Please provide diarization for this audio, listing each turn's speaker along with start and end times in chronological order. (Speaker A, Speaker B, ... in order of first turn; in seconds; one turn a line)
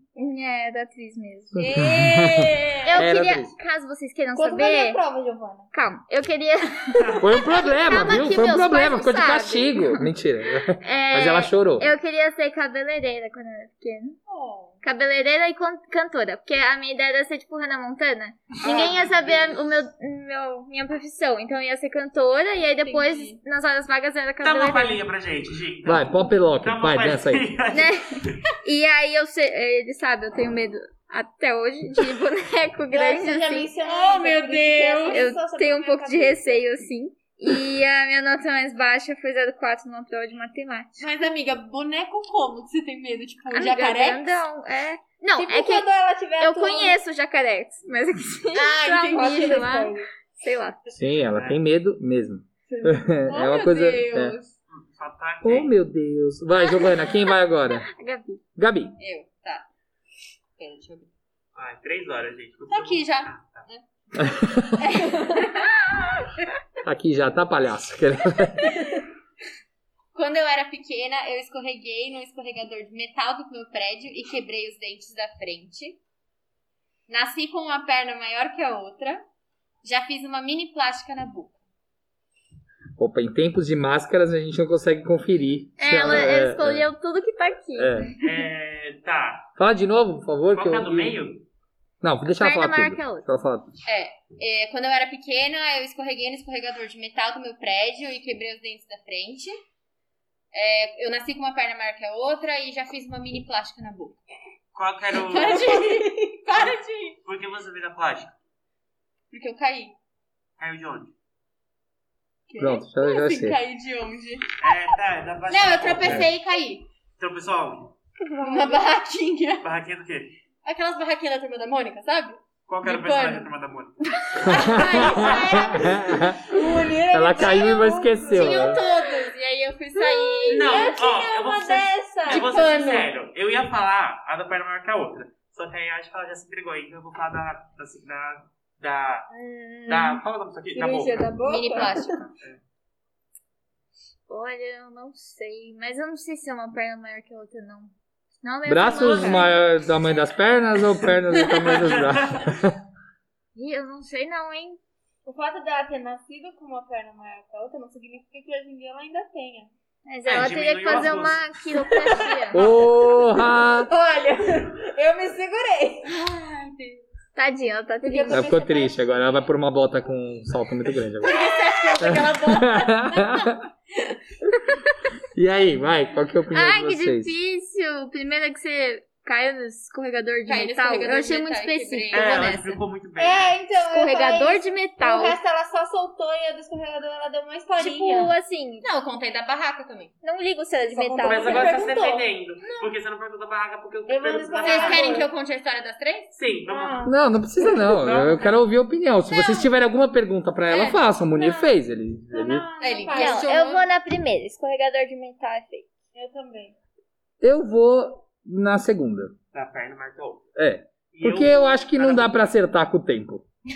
Speaker A: 0.1-1.8
Speaker B: 1.6-3.5
Speaker C: 1.6-3.0
Speaker A: 2.8-5.0
Speaker D: 4.3-5.7
Speaker A: 5.7-10.1
Speaker B: 7.2-11.9
Speaker A: 10.7-14.2
Speaker C: 14.3-14.7
Speaker A: 14.8-25.0
Speaker C: 18.6-19.6
Speaker C: 22.8-23.4
Speaker E: 24.4-28.4
Speaker B: 25.8-27.5
Speaker A: 27.7-33.7
Speaker D: 32.9-36.6
Speaker C: 33.8-35.2
Speaker A: 35.1-41.0
Speaker C: 41.0-44.4
Speaker A: 43.5-45.9
Speaker D: 45.4-47.0
Speaker A: 46.4-50.9
Speaker C: 48.5-49.6
Speaker D: 49.1-50.1
Speaker B: 50.9-54.4
Speaker E: 51.3-51.6
Speaker D: 52.7-53.0
Speaker C: 53.3-54.5
Speaker E: 54.7-55.7
Speaker B: 55.4-57.9
Speaker A: 56.6-58.4
Speaker B: 58.6-58.9
Speaker C: 59.0-59.6
Speaker C: 60.6-61.1
Speaker E: 61.5-63.7
Speaker C: 62.7-63.8
Speaker B: 64.2-64.9
Speaker C: 64.8-65.7
Speaker B: 66.8-68.8
Speaker C: 70.1-76.0
Speaker C: 77.1-79.2
Speaker C: 79.8-81.6
Speaker B: 83.0-86.9
Speaker A: 85.8-88.3
Speaker B: 87.8-88.1
Speaker E: 88.2-89.5
Speaker B: 89.6-91.2
Speaker E: 90.5-91.4
Speaker B: 92.0-93.7
Speaker A: 92.3-93.3
Speaker C: 93.8-99.5
Speaker C: 100.5-104.2
Speaker E: 104.7-105.7
Speaker C: 105.2-107.2
Speaker D: 105.3-106.4
Speaker E: 107.2-108.3
Speaker C: 109.3-109.9
Speaker E: 110.6-111.1
Speaker C: 112.5-114.5
Speaker B: 112.6-113.6
Speaker E: 114.6-116.2
Speaker C: 115.5-116.8
Speaker E: 117.2-117.9
Speaker D: 118.2-118.8
Speaker C: 118.4-119.6
Speaker E: 119.6-120.3
Speaker C: 120.6-123.5
Speaker E: 122.7-124.0
Speaker C: 124.3-126.2
Speaker B: 124.4-126.5
Speaker E: 124.5-125.3
Speaker D: 124.7-129.3
Speaker B: 127.1-128.8
Speaker C: 128.3-130.9
Speaker D: 130.0-132.7
Speaker E: 130.5-139.2
Speaker C: 132.3-133.1
Speaker A: 139.3-140.2
Speaker E: 139.9-142.6
Speaker D: 140.7-142.1
Speaker C: 141.4-142.2
Speaker A: 144.3-149.6
Speaker B: 148.7-152.8
Speaker E: 151.7-152.5
Speaker A: 153.5-154.8
Speaker D: 155.2-159.7
Speaker A: 160.1-162.7
Speaker E: 160.2-161.5
Speaker D: 162.1-162.4
Speaker B: 162.5-163.9
Speaker D: 163.2-166.1
Speaker C: 166.0-167.0
Speaker A: 167.3-168.5
Speaker D: 168.0-169.0
Speaker B: 168.3-171.3
Speaker C: 171.2-173.5
Speaker B: 172.0-173.6
Speaker B: 175.3-177.3
Speaker A: 176.5-182.8
Speaker C: 180.5-182.6
Speaker E: 182.1-183.5
Speaker D: 183.2-188.3
Speaker A: 183.8-185.4
Speaker A: 187.8-188.8
Speaker C: 187.8-188.3
Speaker C: 188.8-190.1
Speaker A: 190.2-191.7
Speaker D: 190.9-192.8
Speaker E: 191.2-195.2
Speaker D: 194.1-195.3
Speaker C: 194.6-196.3
Speaker E: 196.3-197.1
Speaker D: 196.7-197.1
Speaker B: 197.0-202.7
Speaker E: 197.9-198.6
Speaker C: 199.3-199.7
Speaker C: 200.7-201.0
Speaker D: 201.4-201.7
Speaker D: 202.3-203.5
Speaker C: 202.8-203.8
Speaker A: 203.1-205.9
Speaker D: 206.1-206.7
Speaker B: 207.4-209.3
Speaker E: 209.5-210.4
Speaker B: 210.6-213.4
Speaker E: 211.1-212.3